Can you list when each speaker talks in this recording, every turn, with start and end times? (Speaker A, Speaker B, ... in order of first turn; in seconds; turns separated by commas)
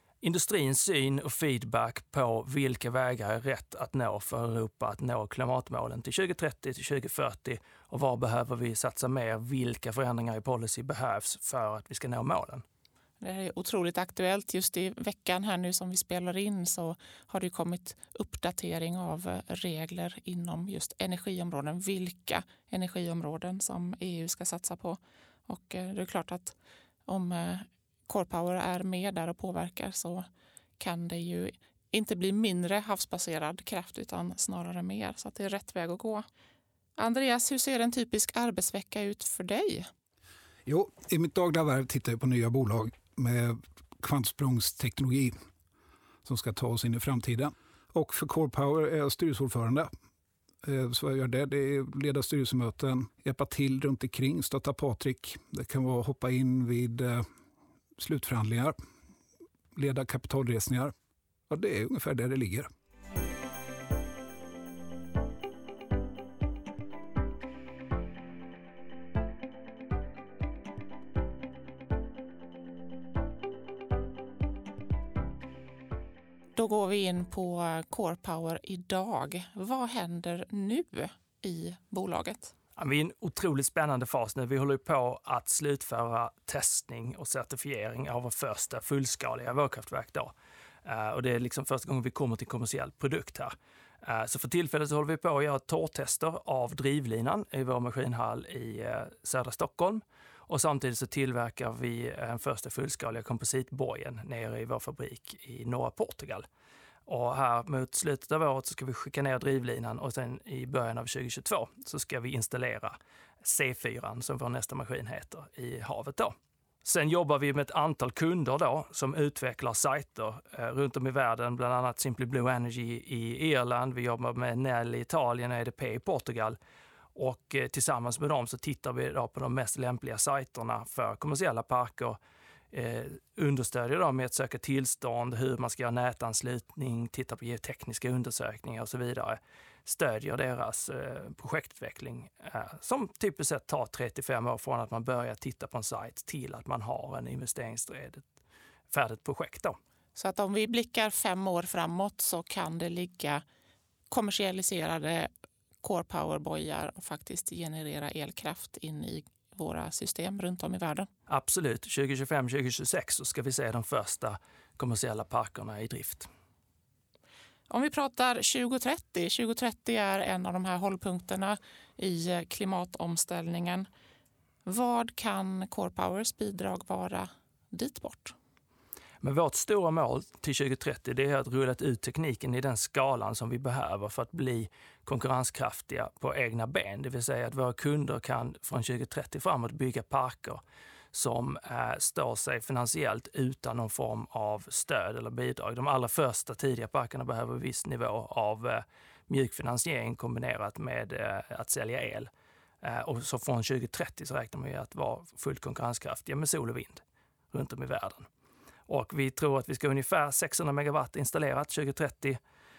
Speaker A: 0.2-12.6, Speaker B: 13.2-26.6, Speaker B: 27.1-30.3, Speaker B: 30.8-36.2, Speaker B: 37.0-39.9, Speaker C: 40.6-45.3, Speaker C: 46.2-49.9, Speaker C: 50.6-57.3, Speaker C: 58.0-58.8, Speaker C: 59.7-60.9, Speaker C: 61.5-62.7, Speaker B: 76.5-82.5, Speaker A: 82.8-90.3, Speaker A: 90.8-106.5, Speaker A: 107.1-126.6, Speaker A: 127.1-132.2, Speaker A: 132.7-148.2, Speaker A: 148.9-149.8, Speaker B: 150.2-153.4, Speaker B: 154.1-155.3, Speaker B: 155.8-161.1, Speaker A: 161.3-166.3, Speaker B: 167.7-173.9, Speaker B: 174.7-178.3, Speaker A: 179.2-190.6, Speaker A: 191.1-202.3, Speaker A: 202.8-208.3, Speaker A: 208.9-212.4